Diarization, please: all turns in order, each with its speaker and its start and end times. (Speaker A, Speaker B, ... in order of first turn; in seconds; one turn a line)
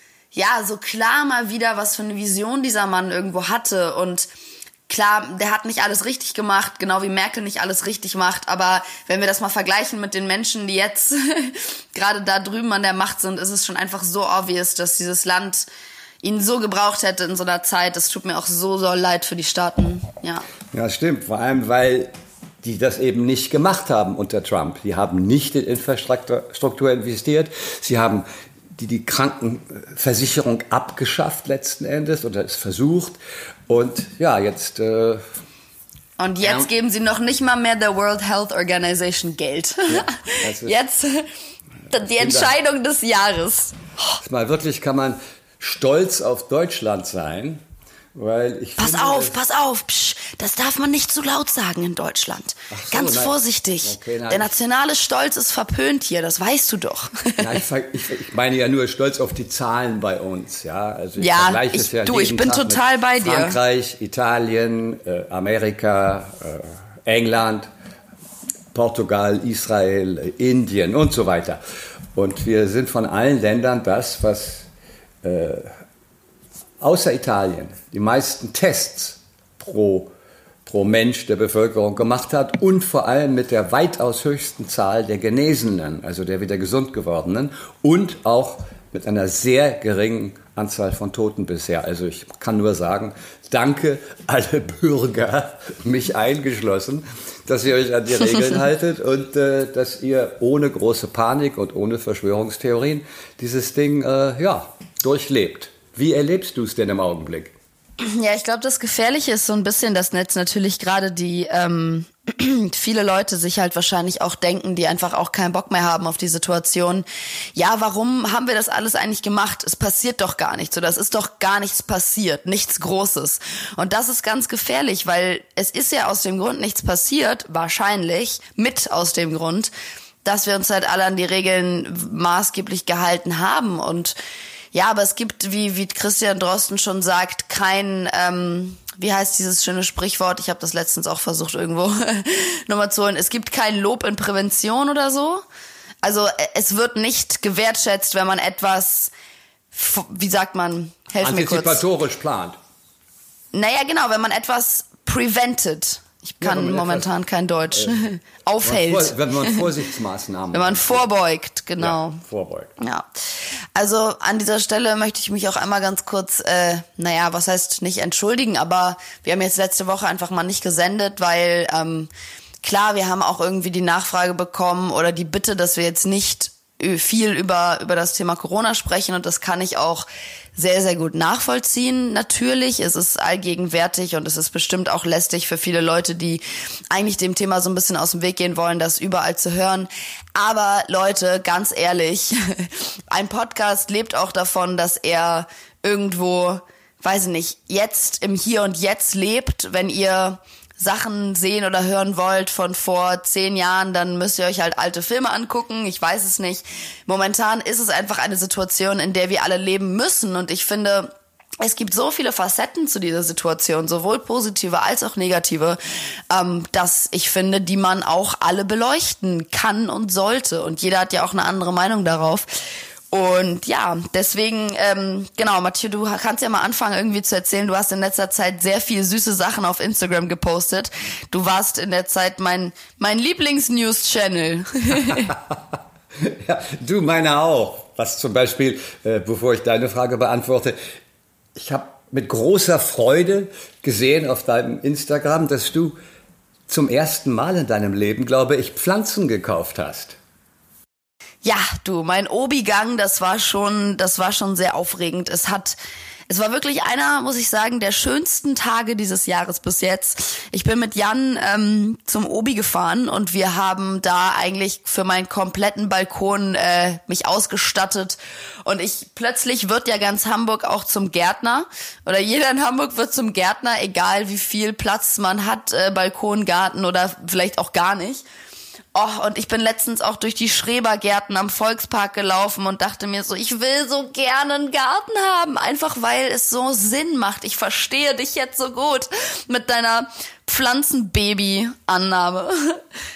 Speaker A: 0.3-4.3
Speaker A: 4.9-15.7
Speaker A: 16.2-20.5
Speaker B: 20.7-22.1
Speaker B: 22.6-35.2
Speaker A: 36.2-41.3
Speaker B: 36.4-36.7
Speaker B: 39.9-40.8
Speaker A: 41.9-44.2
Speaker B: 42.0-42.5
Speaker B: 44.2-47.6
Speaker B: 48.1-49.4
Speaker A: 48.8-57.5
Speaker B: 52.7-54.5
Speaker B: 57.4-67.7
Speaker A: 61.2-63.6
Speaker B: 68.7-71.6
Speaker B: 72.1-74.7
Speaker B: 75.2-75.7
Speaker B: 76.8-80.1
Speaker B: 80.7-107.5
Speaker A: 108.0-129.7
Speaker A: 130.2-134.2
Speaker A: 134.7-145.4
Speaker A: 146.0-149.1
Speaker A: 149.7-151.8
Speaker B: 151.2-152.6
Speaker A: 153.5-159.7
Speaker B: 156.4-157.1
Speaker B: 157.7-158.0
Speaker B: 158.6-161.1
Speaker A: 160.5-162.2
Speaker B: 161.8-162.7
Speaker A: 162.8-163.1
Speaker A: 163.8-172.1
Speaker A: 172.6-215.8
Speaker A: 216.3-222.5
Speaker A: 223.1-235.3
Speaker B: 235.1-235.6
Speaker B: 236.2-240.8
Speaker B: 241.6-246.0
Speaker B: 246.7-250.2
Speaker A: 251.4-255.8
Speaker A: 256.3-278.3
Speaker A: 278.9-292.8